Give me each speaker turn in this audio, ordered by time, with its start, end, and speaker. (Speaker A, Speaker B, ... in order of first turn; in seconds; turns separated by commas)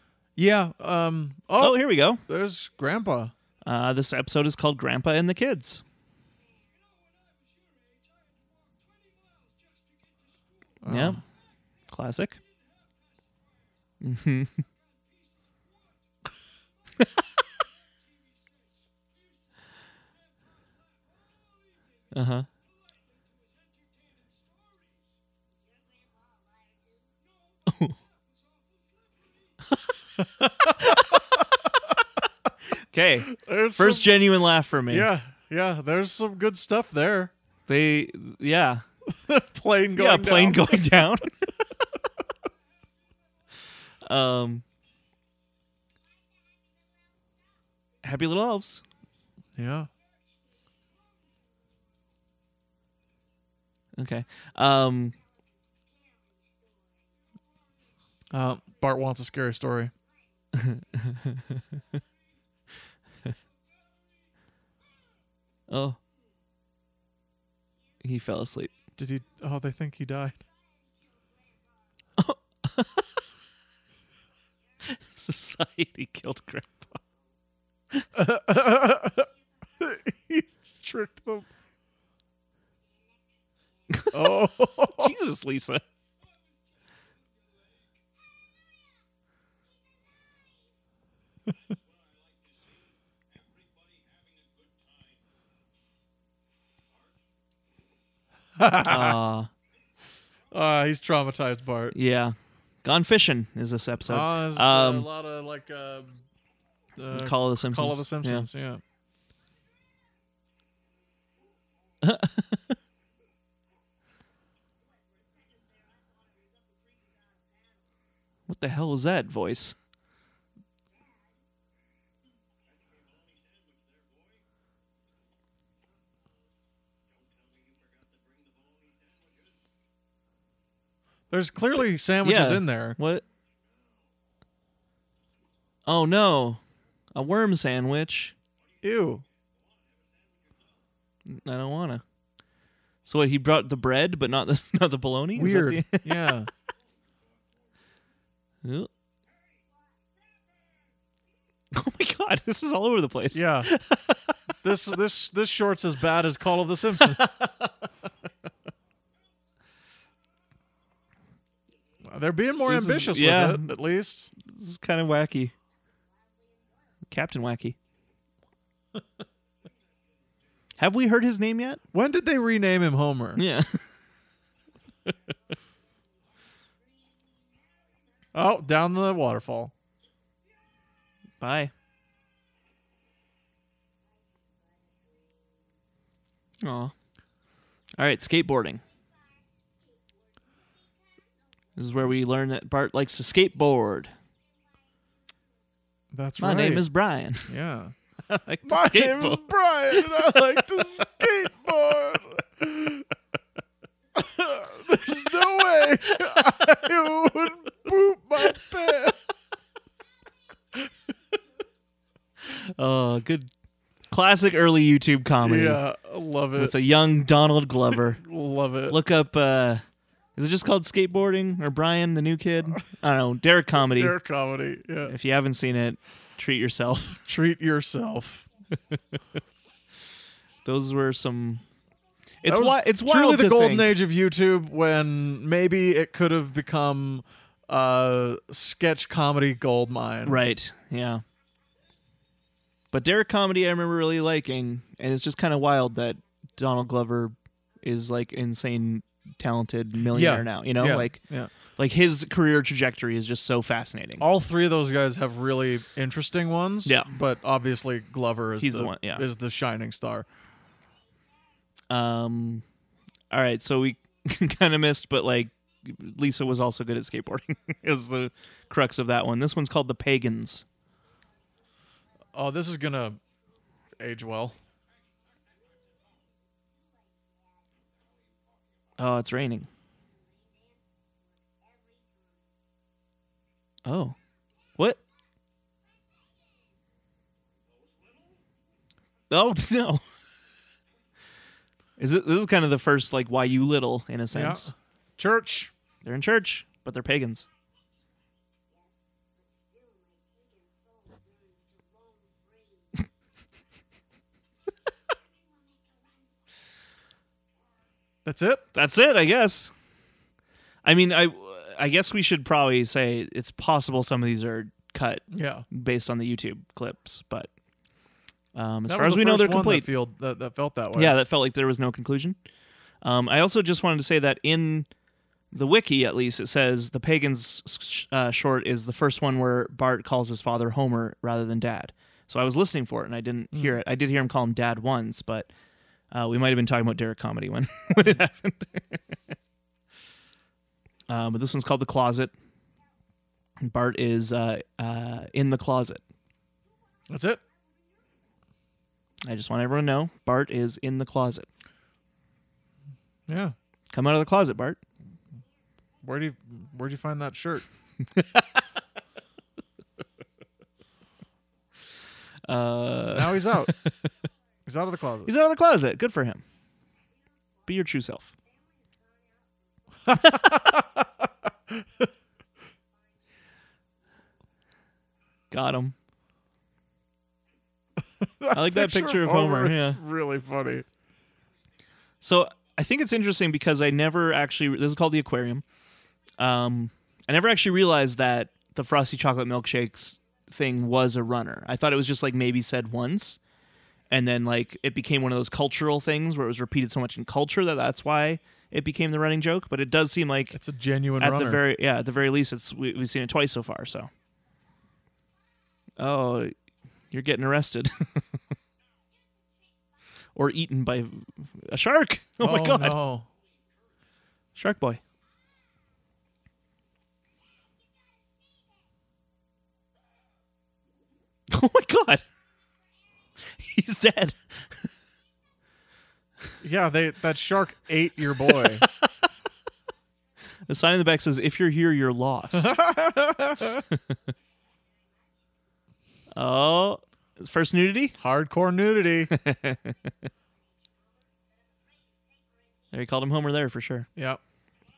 Speaker A: 0.4-3.3, Speaker B: 1.6-2.2, Speaker B: 3.6-5.8, Speaker A: 10.8-11.2, Speaker B: 10.9-11.2, Speaker B: 11.9-12.4, Speaker B: 14.0-14.6, Speaker B: 22.1-22.5, Speaker B: 27.7-27.9, Speaker B: 29.7-29.9, Speaker A: 30.2-31.2, Speaker B: 30.8-31.2, Speaker B: 32.9-35.1, Speaker A: 33.3-34.1, Speaker A: 34.9-37.3, Speaker B: 37.7-38.9, Speaker A: 39.1-40.9, Speaker B: 40.0-41.3, Speaker B: 44.0-44.6, Speaker B: 48.0-48.8, Speaker A: 49.5-49.9, Speaker B: 54.0-55.2, Speaker A: 58.3-59.9, Speaker B: 60.5-61.6, Speaker B: 65.7-66.0, Speaker B: 68.0-68.7, Speaker A: 69.0-70.4, Speaker B: 72.2-73.2, Speaker B: 74.8-77.0, Speaker A: 78.1-79.3, Speaker A: 79.8-81.5, Speaker B: 83.9-85.8, Speaker A: 84.1-85.1, Speaker A: 98.6-99.2, Speaker B: 98.8-99.5, Speaker A: 100.5-102.0, Speaker B: 101.9-105.1, Speaker A: 104.1-106.1, Speaker A: 107.0-108.8, Speaker B: 107.1-108.5, Speaker B: 112.0-112.7, Speaker B: 118.5-119.8, Speaker A: 131.3-133.0, Speaker B: 132.2-133.2, Speaker B: 135.9-136.6, Speaker B: 137.1-138.3, Speaker A: 138.8-139.2, Speaker B: 141.3-142.0, Speaker B: 143.1-146.4, Speaker A: 145.3-146.5, Speaker B: 148.6-148.9, Speaker B: 151.7-154.4, Speaker A: 153.3-153.7, Speaker A: 154.6-157.3, Speaker B: 157.2-157.5, Speaker A: 162.1-164.3, Speaker B: 162.7-163.7, Speaker B: 164.4-165.5, Speaker B: 167.1-167.8, Speaker B: 170.8-171.8, Speaker A: 171.9-173.4, Speaker B: 173.4-173.9, Speaker A: 178.3-179.7, Speaker B: 181.4-181.7, Speaker B: 186.6-186.9, Speaker B: 188.0-188.8, Speaker B: 191.8-194.1, Speaker A: 196.1-196.9, Speaker B: 196.4-197.5, Speaker A: 197.5-197.9, Speaker B: 198.3-200.5, Speaker A: 198.6-203.1, Speaker A: 204.1-209.2, Speaker B: 212.4-213.5, Speaker B: 214.1-215.8, Speaker A: 215.4-216.7, Speaker B: 216.6-218.2, Speaker A: 218.2-219.0, Speaker B: 218.9-219.8, Speaker B: 220.4-224.2, Speaker A: 223.8-225.1, Speaker B: 225.1-227.2, Speaker A: 227.3-228.5, Speaker B: 230.6-231.6, Speaker B: 232.4-233.9, Speaker A: 232.4-240.4, Speaker B: 240.2-241.2, Speaker B: 242.9-254.2, Speaker A: 250.1-251.5, Speaker A: 254.2-260.3, Speaker B: 256.9-257.1, Speaker B: 258.6-259.3, Speaker B: 261.9-262.6, Speaker B: 263.3-270.6, Speaker A: 272.3-273.2, Speaker A: 274.0-274.6, Speaker B: 279.0-279.7, Speaker B: 283.9-284.2, Speaker B: 289.3-290.0, Speaker B: 292.0-294.7, Speaker A: 294.3-295.7, Speaker B: 296.0-297.5, Speaker A: 308.2-308.6, Speaker B: 308.7-309.7, Speaker B: 310.8-317.5, Speaker A: 315.3-315.7, Speaker B: 318.6-319.9, Speaker A: 318.9-321.2, Speaker B: 320.9-322.4, Speaker B: 323.0-324.9, Speaker B: 325.5-335.5, Speaker B: 336.1-339.0, Speaker B: 341.1-342.3, Speaker B: 343.6-346.0, Speaker A: 347.1-347.4, Speaker B: 349.2-351.5, Speaker A: 353.3-353.6, Speaker B: 353.9-354.8, Speaker A: 356.0-357.7, Speaker B: 358.0-358.6, Speaker B: 362.4-364.1, Speaker A: 363.1-363.7, Speaker A: 364.7-365.3, Speaker B: 365.3-366.4, Speaker B: 367.7-368.3, Speaker A: 370.1-371.1, Speaker B: 370.2-370.6, Speaker B: 375.5-375.9, Speaker A: 378.2-380.9, Speaker B: 378.5-380.0, Speaker B: 382.2-385.6, Speaker B: 386.4-393.4, Speaker B: 394.1-400.6, Speaker A: 400.5-401.6, Speaker B: 401.2-404.1, Speaker B: 406.0-406.5, Speaker B: 407.1-408.4, Speaker B: 410.4-413.0, Speaker A: 412.4-413.3, Speaker B: 414.6-415.0, Speaker B: 421.5-422.2, Speaker B: 423.5-424.4, Speaker A: 426.6-428.9, Speaker B: 428.6-429.1, Speaker B: 430.7-432.8, Speaker A: 432.5-433.9, Speaker B: 436.3-438.2, Speaker A: 438.2-439.3, Speaker B: 439.3-440.1, Speaker B: 442.9-444.1, Speaker A: 444.2-444.4